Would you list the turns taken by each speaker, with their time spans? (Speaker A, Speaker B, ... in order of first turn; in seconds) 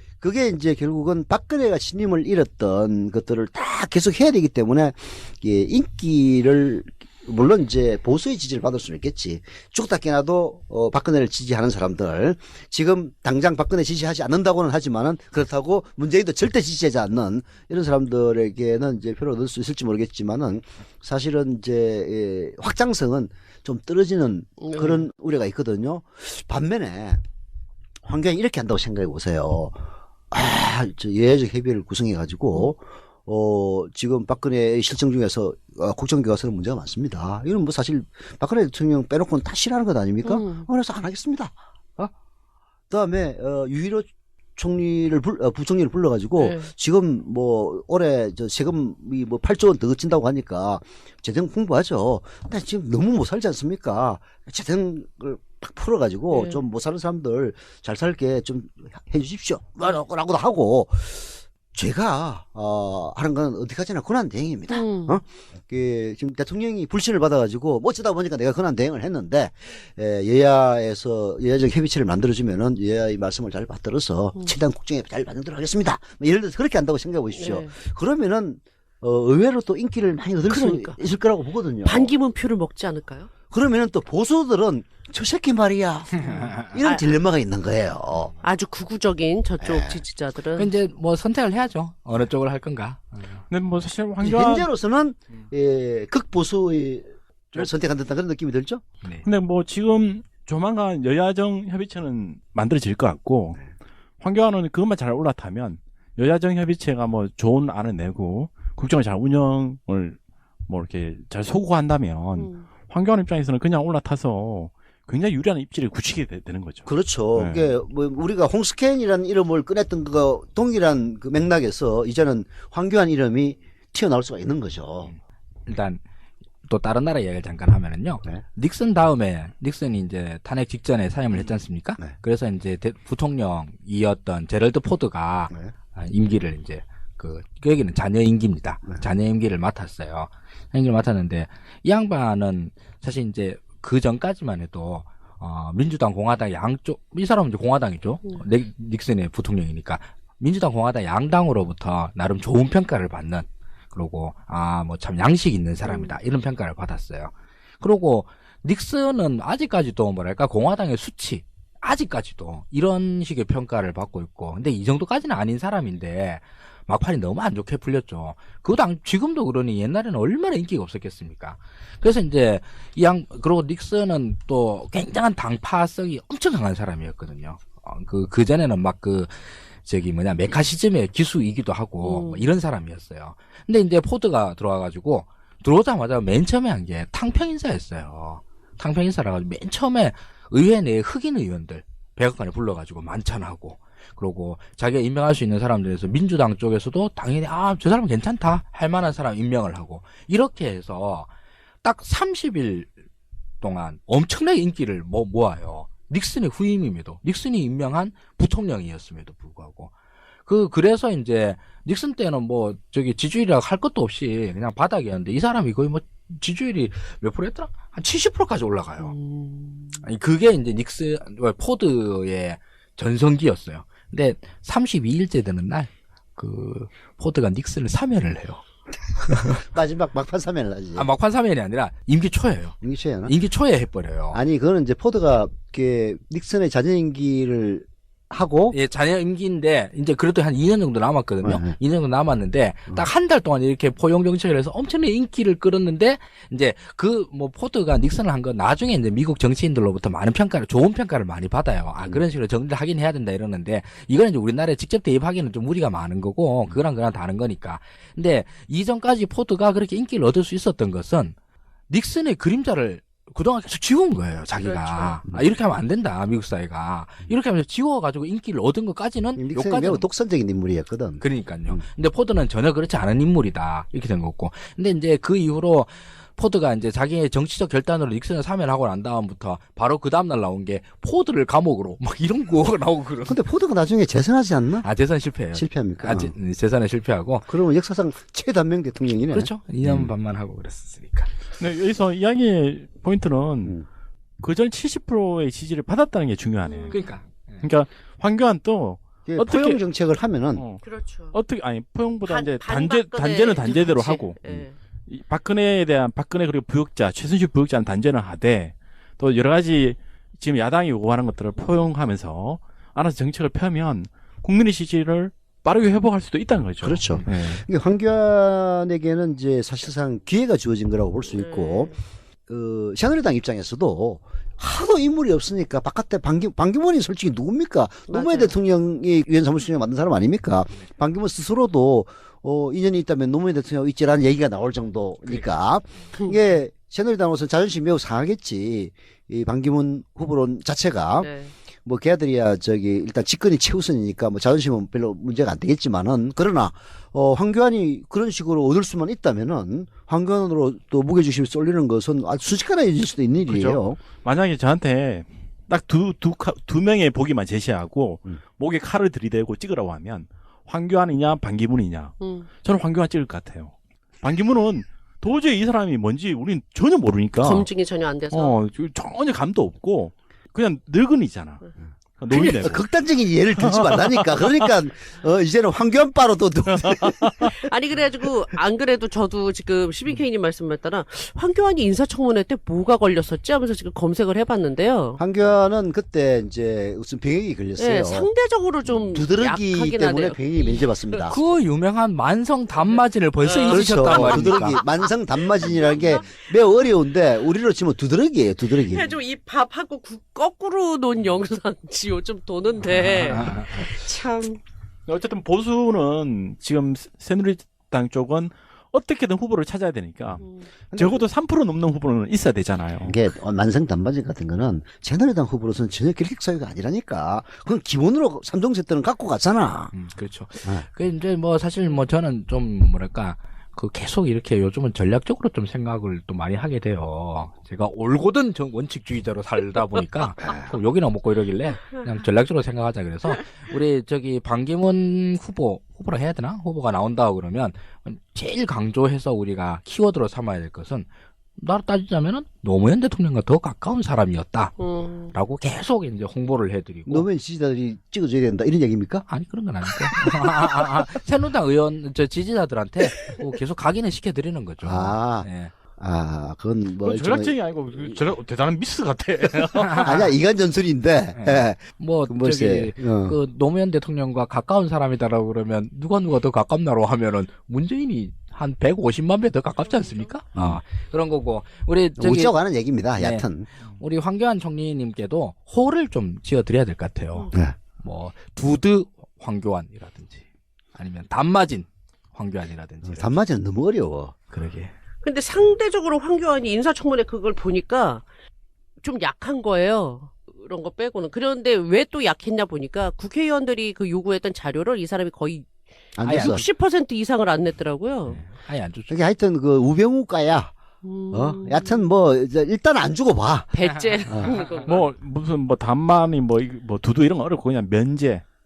Speaker A: 0.2-27.2, 28.0-29.8, 30.3-42.1, 42.9-82.1, 83.5-88.3, 89.6-90.0, 94.2-98.8, 116.9-125.1, 131.4-132.2, 229.5-231.1, 232.8-233.3, 234.3-238.8, 241.4-241.8, 269.4-271.8, 283.3-284.9, 285.5-286.3, 287.5-290.1, 299.3-300.6, 316.8-321.9, 322.5-341.3, 341.9-354.0, 372.3-377.5, 385.2-388.3, 389.1-391.4, 393.7-399.2, 410.9-411.2, 413.0-419.9, 447.1-449.2, 454.8-457.6, 460.0-463.4, 470.6-470.8, 472.2-473.7, 483.0-484.4, 496.2-496.6, 499.1-500.7, 501.3-504.6
Speaker B: 24.6-25.0, 40.2-40.7, 46.4-46.7, 56.3-56.6, 64.7-65.2, 77.4-77.7, 80.5-81.0, 81.8-83.3, 86.8-87.1, 88.4-90.7, 112.4-112.7, 155.9-156.2, 182.0-182.5, 219.0-220.0, 264.6-265.2, 296.6-297.0, 300.8-301.4, 302.3-304.8, 321.3-321.9, 328.1-328.5, 341.2-341.5, 362.2-362.5, 367.4-368.6, 372.3-372.7, 377.6-385.2, 387.8-391.3, 392.9-396.5, 398.8-404.6, 410.4-410.7, 444.8-445.3, 469.9-470.3, 485.2-488.2, 489.0-495.7, 496.2-498.4, 501.0-502.0, 503.7-505.0
Speaker C: 86.4-86.7, 90.6-93.4, 125.7-126.0, 126.7-201.3, 201.8-202.9, 203.6-209.9, 210.5-219.1, 220.0-228.6, 229.3-229.6, 230.9-232.8, 233.3-234.4, 238.7-261.4, 261.9-270.1, 271.2-283.4, 284.8-287.5, 289.3-291.3, 296.9-297.6, 391.3-394.8, 403.0-403.9, 419.9-444.8, 445.3-447.3, 449.3-455.7, 459.9-460.1, 461.4-472.6, 473.2-473.5, 474.0-483.4, 484.5-484.9, 496.2-496.7, 498.3-499.2
Speaker D: 93.5-94.7, 99.2-103.6, 104.2-117.7, 291.6-293.8, 294.4-297.0, 297.6-299.8, 300.6-304.4, 305.1-317.6, 353.4-367.7, 368.3-371.6, 372.2-372.8, 373.6-374.7, 376.8-377.5, 405.1-413.1, 457.0-460.2, 504.8-508.4